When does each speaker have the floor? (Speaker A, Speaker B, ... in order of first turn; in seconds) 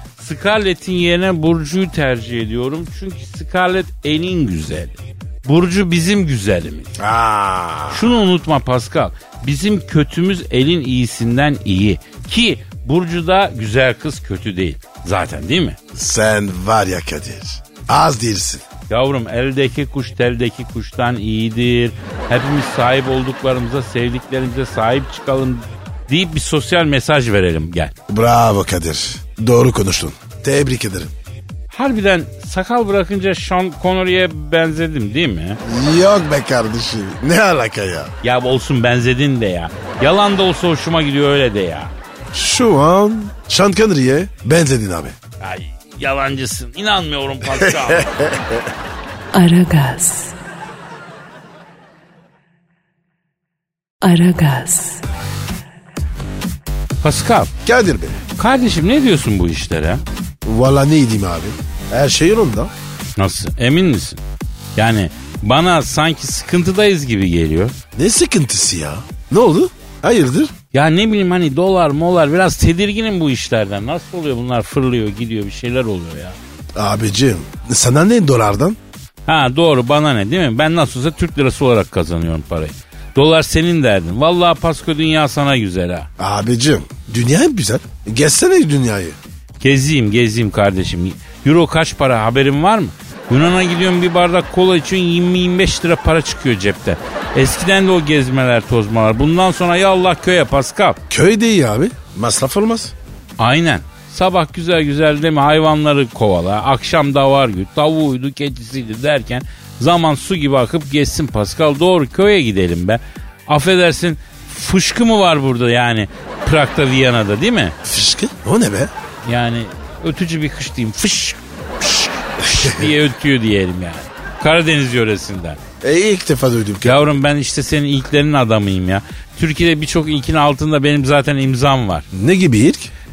Speaker A: 0.2-7.0, 7.9-15.8, 18.9-27.9, 31.7-35.6, 38.2-41.9, 45.4-48.1, 57.0-57.5, 58.4-60.0, 63.2-64.2, 64.8-67.7, 70.7-76.4, 79.2-86.1, 89.6-101.0, 103.4-117.8, 119.2-125.6, 126.8-132.1
Speaker B: 7.0-8.1, 15.9-18.6, 28.1-31.1, 35.6-38.1, 42.3-45.1, 47.8-48.6, 57.6-58.2, 60.4-62.7, 68.0-70.5, 76.7-78.8, 86.2-89.2, 101.1-102.9, 117.8-118.9, 122.5-122.9, 125.8-127.0, 132.1-132.9
Speaker C: 49.3-50.4, 54.0-55.0